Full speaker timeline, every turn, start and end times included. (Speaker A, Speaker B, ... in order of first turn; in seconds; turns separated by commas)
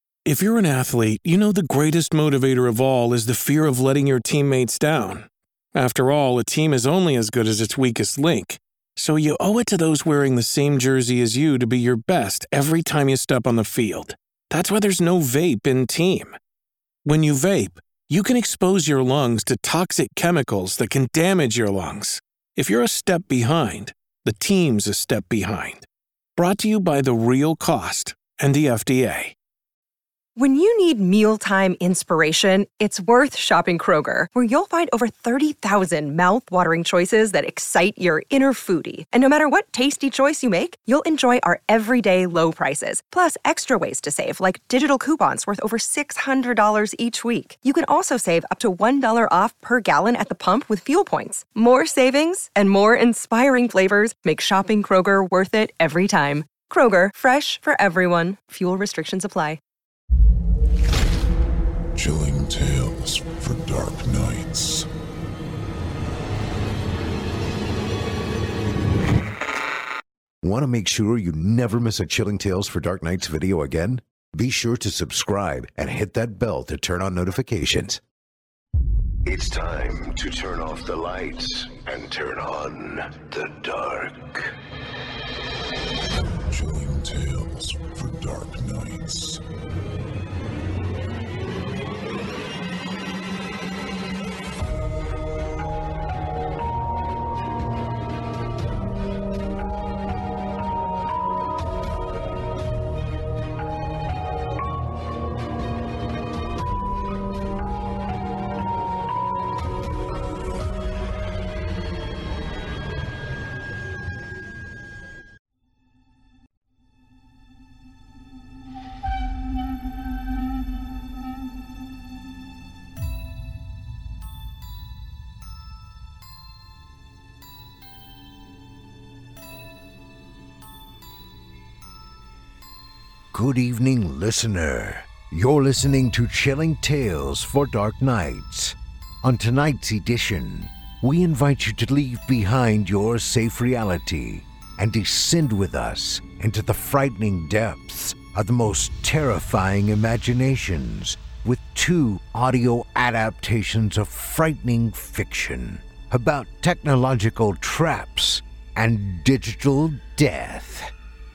Speaker A: 0.2-16.4, Speaker A: 17.0-29.3, Speaker B: 30.4-59.6, Speaker C: 61.9-64.9, Speaker D: 70.4-78.0, Speaker E: 79.3-84.4, Speaker C: 86.2-89.4, Speaker D: 133.3-160.9